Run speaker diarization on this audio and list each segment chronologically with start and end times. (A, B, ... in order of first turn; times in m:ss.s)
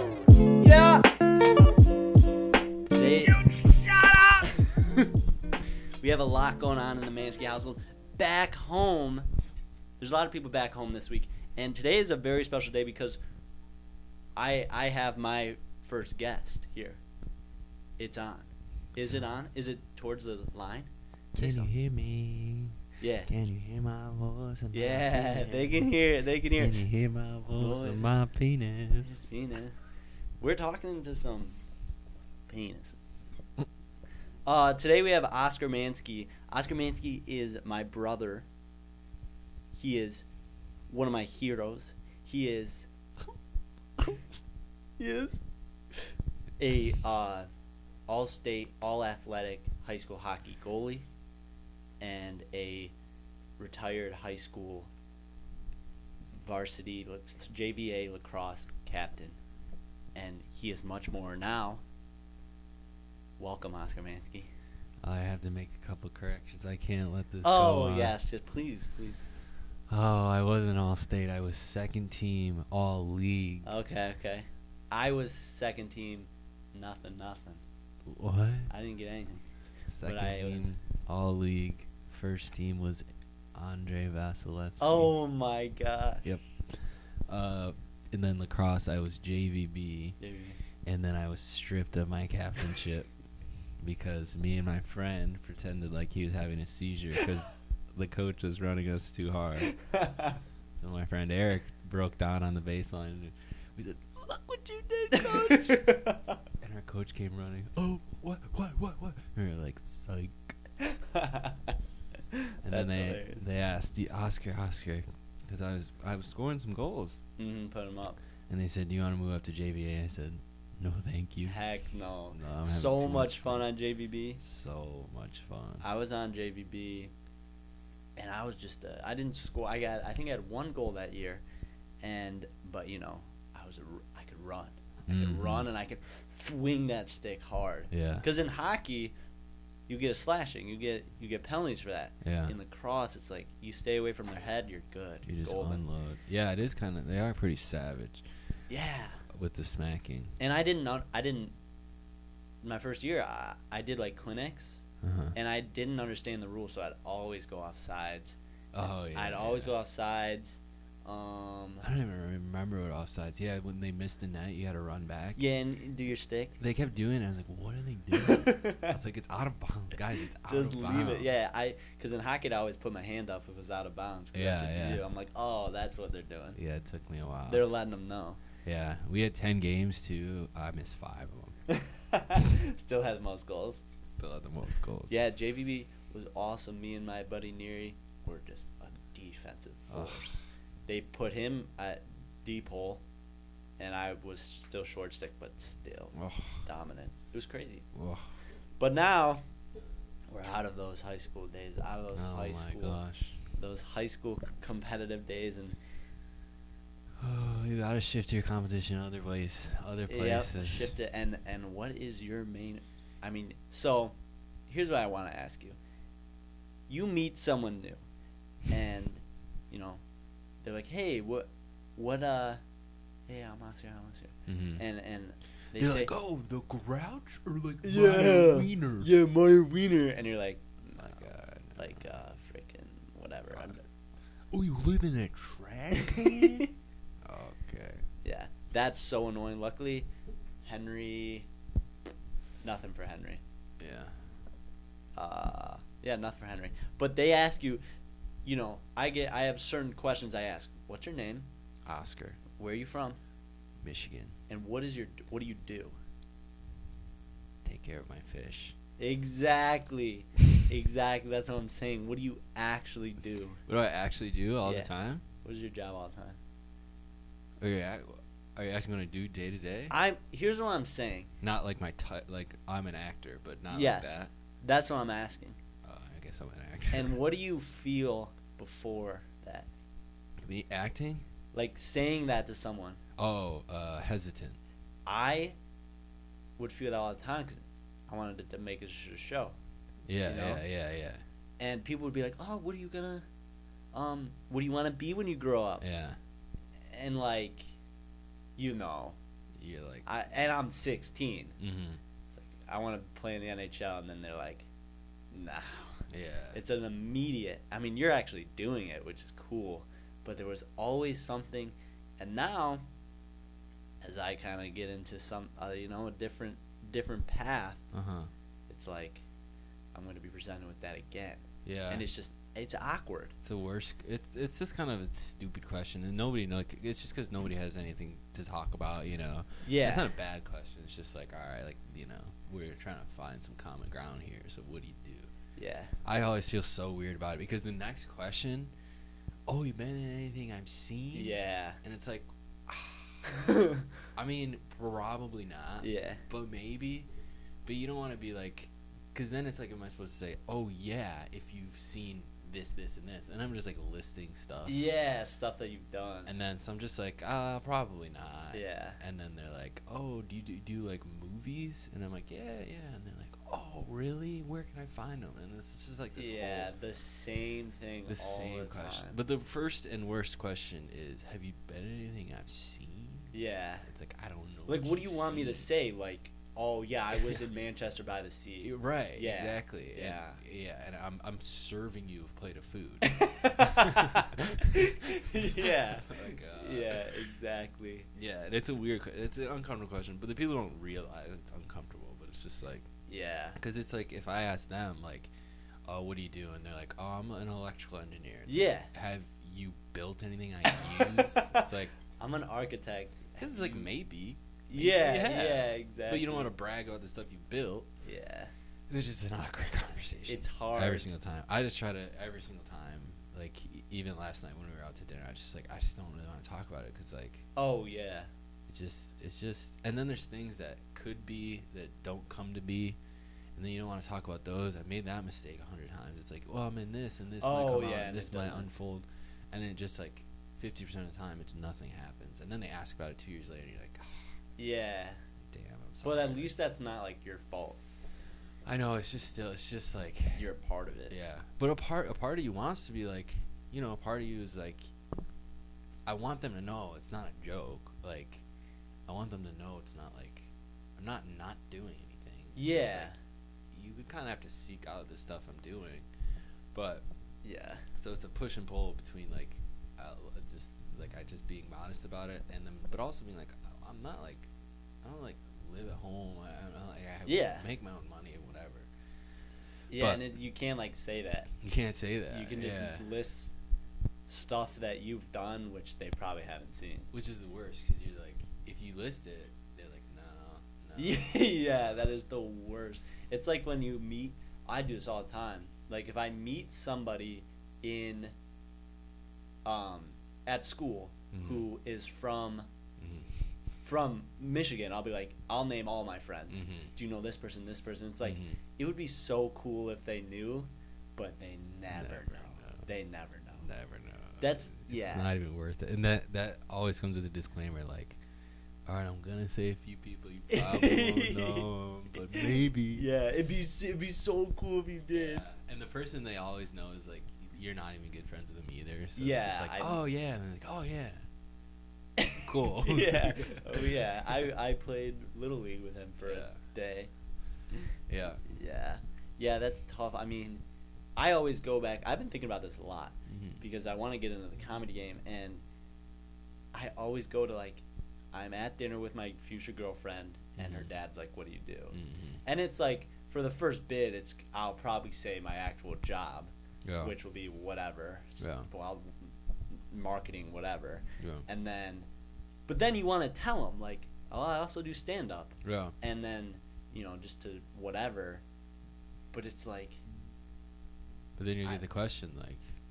0:00.6-0:01.1 A
0:02.9-0:05.1 A
0:06.0-0:09.3 A
0:10.0-0:13.2 A
0:14.4-0:17.0 A
0:18.0-0:21.7 A
0:21.4-0:25.9 B
0:23.0-0:23.3 A
0:24.7-0:26.9 A
0:26.5-0:29.2 B
0:27.5-0:28.1 A
0:29.0-0:29.8 A
0:30.4-0:31.6 A
0:32.5-0:33.0 A
0:34.4-0:38.5 A
0:39.7-0:40.3 A
0:40.9-0:42.9 A
0:45.0-0:45.4 A
0:46.6-0:47.5 A
0:48.1-0:51.1 A
0:52.0-0:52.9 A
0:53.6-0:54.9 A
0:56.4-0:59.4 A
1:00.2-1:01.8 A
1:03.4-1:04.5 A
1:05.0-1:08.2 B
1:07.4-1:09.2 A
1:09.9-1:13.7 B
1:13.6-1:17.6 A
1:18.1-1:18.7 B
1:18.7-1:19.4 A
1:19.9-1:25.1 B
1:20.0-1:20.6 A
1:24.8-1:26.2 A
1:26.2-1:30.2 B
1:30.2-1:30.6 A
1:30.8-1:33.1 B
1:33.8-1:39.8 B
1:39.7-1:40.4 A
1:40.8-1:46.0 B
1:45.1-1:46.4 A
1:46.6-1:50.6 B
1:50.8-1:51.8 A
1:52.3-1:53.4 A
1:52.6-1:57.2 B
1:57.4-1:58.2 A
1:58.5-2:01.6 B
2:01.4-2:04.4 A
2:02.3-2:03.6 B
2:04.4-2:05.8 B
2:05.8-2:07.1 A
2:08.2-2:11.4 A
2:12.0-2:19.1 A
2:15.1-2:15.7 B
2:17.9-2:18.3 B
2:19.9-2:25.8 A
2:22.2-2:22.6 B
2:25.2-2:28.3 B
2:28.7-2:29.3 A
2:29.3-2:30.4 B
2:30.4-2:31.6 A
2:32.6-2:38.4 A
2:35.0-2:35.4 B
2:38.7-2:39.7 B
2:38.9-2:41.9 A
2:41.8-2:45.4 B
2:45.4-2:46.6 A
2:46.6-2:51.4 B
2:48.2-2:49.0 A
2:50.5-2:56.6 A
2:54.3-2:55.0 B
2:56.6-2:57.7 B
2:57.5-2:58.4 A
2:58.6-3:01.6 B
3:01.7-3:03.8 A
3:04.1-3:05.2 B
3:05.1-3:13.0 A
3:09.9-3:10.4 B
3:13.8-3:17.9 A
3:16.1-3:16.6 B
3:17.9-3:18.3 B
3:18.8-3:19.4 A
3:20.3-3:23.0 A
3:22.1-3:23.4 B
3:23.6-3:25.8 A
3:27.2-3:30.9 B
3:30.1-3:34.2 A
3:34.7-3:35.8 A
3:36.9-3:38.0 A
3:38.7-3:40.0 A
3:40.6-3:42.6 A
3:43.3-3:46.1 A
3:44.5-3:44.8 B
3:45.8-3:49.1 B
3:47.8-3:53.9 A
3:51.0-3:52.2 B
3:54.5-3:56.7 B
3:56.0-3:56.7 A
3:57.2-3:58.1 B
3:58.2-4:00.1 A
4:00.6-4:01.5 A
4:02.6-4:03.4 A
4:03.8-4:04.2 B
4:05.2-4:07.8 A
4:08.4-4:11.5 A
4:11.9-4:12.4 B
4:12.6-4:13.2 A
4:13.8-4:14.4 B
4:14.5-4:16.0 A
4:17.6-4:18.8 B
4:19.0-4:23.6 A
4:23.7-4:25.2 B
4:24.6-4:24.9 A
4:25.4-4:26.4 A
4:27.6-4:29.9 B
4:29.9-4:31.3 A
4:31.4-4:34.3 B
4:33.7-4:35.6 A
4:35.8-4:37.2 B
4:36.9-4:39.7 A
4:40.4-4:41.2 B
4:41.5-4:43.0 A
4:43.2-4:44.6 B
4:45.1-4:45.6 A
4:46.6-4:49.6 A
4:50.1-4:51.2 B
4:50.2-4:50.6 A
4:51.6-4:53.2 A
4:53.9-4:55.8 A
4:55.8-4:56.2 B
4:56.9-4:57.7 A
4:58.6-4:59.2 A
4:59.6-5:00.1 B
5:00.1-5:01.6 A
5:01.6-5:02.0 B
5:02.4-5:04.7 A
5:05.3-5:12.8 A
5:06.1-5:06.6 B
5:14.0-5:17.9 A
5:17.9-5:18.3 B
5:18.7-5:19.2 A
5:19.9-5:23.4 A
5:21.6-5:22.0 B
5:23.4-5:35.3 B
5:29.6-5:30.1 A
5:35.6-5:36.0 A
5:36.0-5:38.7 B
5:39.5-5:43.2 B
5:41.1-5:41.8 A
5:43.2-5:43.9 A
5:44.2-5:47.1 B
5:45.8-5:46.2 A
5:47.6-5:54.9 B
5:54.7-5:56.3 A
5:56.3-6:06.7 B
5:58.5-5:59.0 A
6:06.2-6:09.2 A
6:08.1-6:13.3 B
6:13.3-6:13.9 A
6:13.9-6:15.7 B
6:14.7-6:20.4 A
6:18.6-6:27.2 B
6:23.0-6:28.1 A
6:28.2-6:32.9 B
6:33.1-6:33.6 A
6:33.6-6:35.3 B
6:35.8-6:42.0 B
6:38.5-6:38.9 A
6:40.7-6:43.9 A
6:43.4-6:47.9 B
6:44.7-6:46.5 A
6:48.0-6:48.5 A
6:48.9-6:57.5 B
6:50.3-6:51.1 A
6:57.6-6:58.3 A
6:58.7-7:03.0 B
7:03.6-7:14.3 B
7:07.4-7:08.7 A
7:14.6-7:15.2 A
7:15.4-7:16.5 B
7:16.0-7:17.8 A
7:18.6-7:20.4 B
7:20.4-7:21.2 A
7:21.1-7:24.9 B
7:26.1-7:28.4 B
7:29.1-7:33.1 B
7:32.6-7:33.2 A
7:33.7-7:36.1 B
7:36.7-7:37.1 B
7:37.4-7:37.9 A
7:38.0-7:44.5 B
7:45.0-7:48.9 B
7:47.3-7:47.7 A
7:49.9-7:51.5 A
7:49.9-7:50.3 B
7:51.6-7:53.1 B
7:52.3-7:53.6 A
7:54.3-7:57.1 A
7:57.1-8:01.3 B
8:01.0-8:08.3 A
8:09.6-8:12.7 A
8:11.3-8:11.7 B
8:13.0-8:13.3 B
8:13.8-8:23.7 A
8:16.5-8:16.9 B
8:18.2-8:18.6 B
8:21.9-8:22.9 B
8:23.6-8:28.2 B
8:24.4-8:25.3 A
8:28.9-8:33.1 B
8:30.5-8:35.4 A
8:35.1-8:41.3 B
8:39.2-8:40.0 A
8:42.2-8:47.1 A
8:42.4-8:44.4 B
8:46.2-8:46.6 B
8:48.1-8:48.4 B
8:48.4-8:50.6 A
8:51.2-8:55.6 A
8:53.3-8:53.6 B
8:56.7-9:06.5 A
9:00.6-9:00.9 B
9:01.9-9:02.4 B
9:06.8-9:07.2 B
9:07.0-9:12.1 A
9:08.4-9:08.7 B
9:11.2-9:11.5 B
9:12.7-9:18.4 A
9:15.6-9:16.0 B
9:19.3-9:20.0 A
9:21.4-9:22.6 B